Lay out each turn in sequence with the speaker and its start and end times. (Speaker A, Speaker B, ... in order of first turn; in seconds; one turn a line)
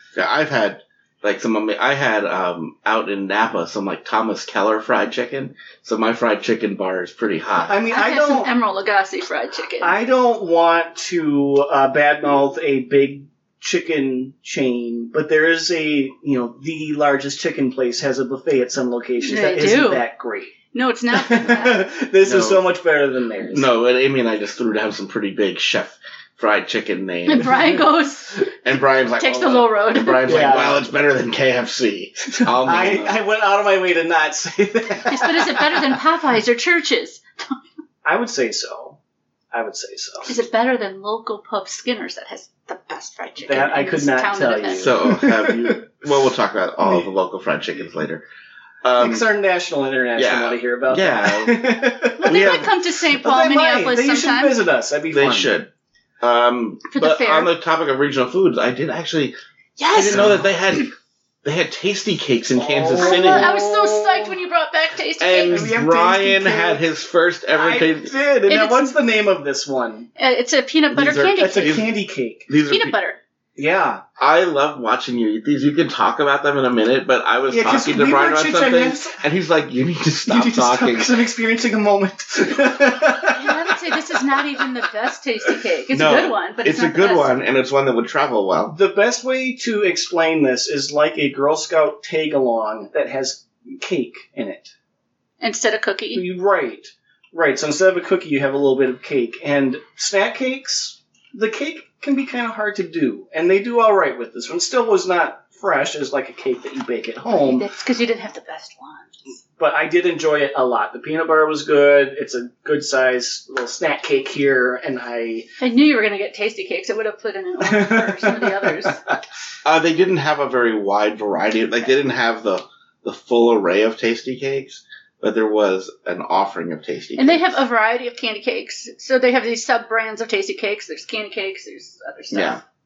Speaker A: 0.1-7.8
Speaker B: 7.6-8.5
Speaker C: 7.9-10.0
Speaker B: 9.8-20.5
Speaker C: 19.2-20.1
Speaker C: 20.7-21.9
Speaker B: 21.1-23.7
Speaker A: 22.2-22.6
Speaker A: 23.5-27.8
Speaker C: 27.3-28.5
Speaker A: 28.6-33.2
Speaker C: 29.2-30.4
Speaker B: 30.2-30.9
Speaker B: 32.3-36.0
Speaker C: 35.1-37.6
Speaker B: 38.0-39.0
Speaker B: 39.5-40.4
Speaker C: 40.2-44.9
Speaker B: 43.4-45.9
Speaker A: 44.8-48.2
Speaker A: 48.8-49.2
Speaker B: 49.0-55.5
Speaker A: 50.1-51.6
Speaker C: 52.2-54.6
Speaker A: 52.2-52.7
Speaker A: 55.1-55.7
Speaker A: 56.2-59.3
Speaker C: 56.9-57.5
Speaker C: 59.8-60.5
Speaker A: 59.9-60.9
Speaker B: 60.1-60.4
Speaker A: 61.4-63.5
Speaker B: 62.5-64.3
Speaker C: 63.0-65.7
Speaker A: 65.2-68.1
Speaker B: 65.5-66.9
Speaker B: 67.5-70.1
Speaker C: 68.5-68.9
Speaker C: 70.2-71.8
Speaker A: 70.9-71.9
Speaker B: 71.0-72.5
Speaker A: 72.5-73.0
Speaker C: 72.7-73.2
Speaker B: 73.6-74.0
Speaker A: 74.2-81.2
Speaker B: 77.5-79.2
Speaker B: 80.3-84.7
Speaker C: 83.3-87.3
Speaker A: 85.9-88.8
Speaker B: 88.7-94.7
Speaker C: 95.4-96.2
Speaker B: 96.1-107.7
Speaker C: 107.3-109.1
Speaker B: 109.6-115.5
Speaker C: 115.6-119.0
Speaker B: 117.6-119.2
Speaker A: 119.6-127.6
Speaker C: 127.2-132.6
Speaker A: 132.3-132.6